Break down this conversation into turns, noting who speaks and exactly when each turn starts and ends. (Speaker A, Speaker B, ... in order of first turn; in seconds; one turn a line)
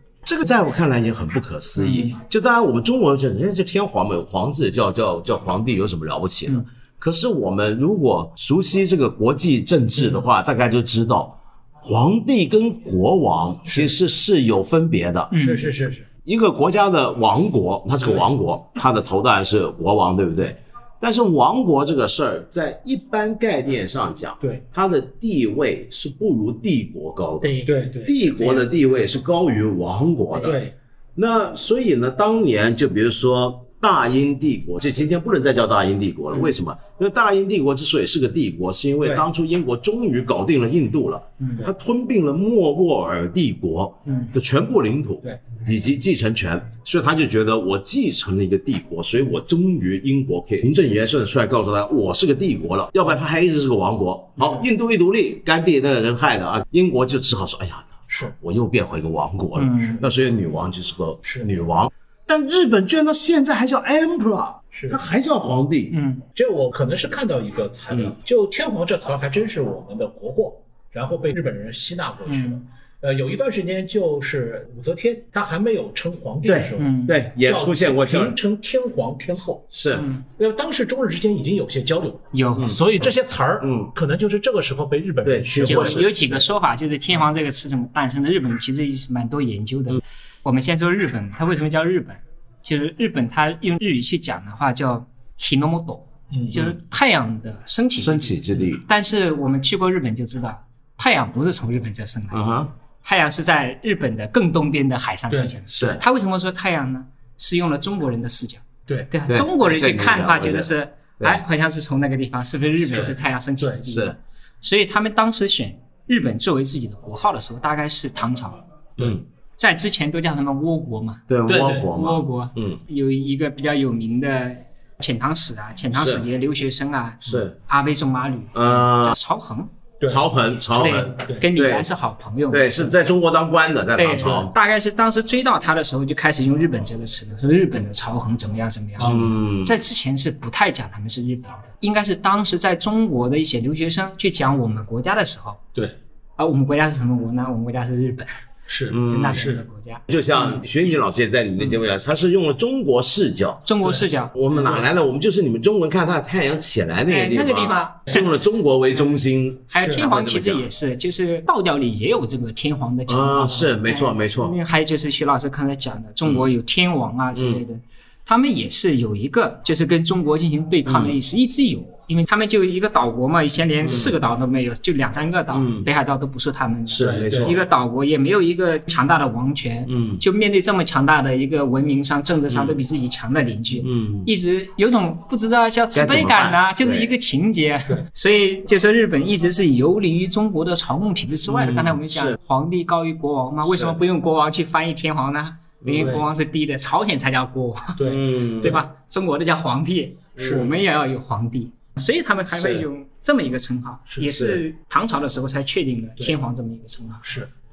Speaker A: 0.2-15.3
Speaker B: 1.8-2.1
Speaker C: 13.7-13.9
Speaker B: 15.3-15.7
Speaker C: 15.4-16.1
Speaker A: 16.2-30.6
Speaker C: 18.0-18.3
Speaker B: 27.4-28.6
Speaker C: 27.6-28.3
Speaker C: 30.4-30.7
Speaker A: 31.1-65.9
Speaker B: 41.4-41.7
Speaker B: 44.1-44.3
Speaker C: 45.2-45.5
Speaker C: 54.4-54.6
Speaker C: 58.1-58.4
Speaker B: 59.5-60.0
Speaker C: 61.2-61.5
Speaker C: 64.7-65.1
Speaker B: 65.9-66.2
Speaker C: 66.3-79.7
Speaker B: 72.3-72.6
Speaker A: 76.4-78.4
Speaker B: 76.8-77.2
Speaker A: 79.7-80.1
Speaker B: 79.9-80.2
Speaker C: 80.4-86.4
Speaker B: 82.3-82.8
Speaker A: 83.6-83.9
Speaker A: 85.2-86.1
Speaker B: 85.6-102.4
Speaker C: 96.3-96.7
Speaker A: 98.0-98.8
Speaker A: 102.3-102.7
Speaker B: 103.0-118.6
Speaker A: 105.7-106.0
Speaker A: 109.3-111.4
Speaker C: 112.9-113.9
Speaker A: 119.0-119.2
Speaker B: 119.6-121.2
Speaker A: 121.3-122.8
Speaker C: 121.5-121.9
Speaker B: 121.8-129.7
Speaker A: 125.9-126.3
Speaker A: 127.2-127.5
Speaker A: 128.5-129.2
Speaker C: 130.0-130.3
Speaker A: 130.1-131.9
Speaker B: 130.7-133.0
Speaker A: 132.5-134.5
Speaker B: 133.9-145.6
Speaker C: 139.0-139.3
Speaker A: 139.0-139.8
Speaker B: 146.4-148.4
Speaker C: 148.7-149.6
Speaker A: 148.9-149.5
Speaker B: 148.9-150.7
Speaker A: 150.1-153.7
Speaker B: 153.7-154.8
Speaker A: 154.3-160.7
Speaker B: 157.1-158.3
Speaker B: 159.7-198.0
Speaker A: 163.1-164.6
Speaker A: 167.3-167.6
Speaker A: 170.8-171.2
Speaker A: 173.8-174.1
Speaker A: 175.5-175.9
Speaker A: 176.9-177.7
Speaker C: 177.0-177.6
Speaker A: 179.9-180.2
Speaker A: 182.5-182.8
Speaker A: 183.8-184.3
Speaker A: 185.9-187.1
Speaker A: 191.5-192.4
Speaker A: 195.8-196.1
Speaker C: 196.0-196.2
Speaker C: 198.0-198.8
Speaker A: 198.1-198.8
Speaker B: 198.6-207.2
Speaker C: 200.4-200.7
Speaker A: 202.5-202.9
Speaker C: 204.1-204.6
Speaker C: 207.2-207.5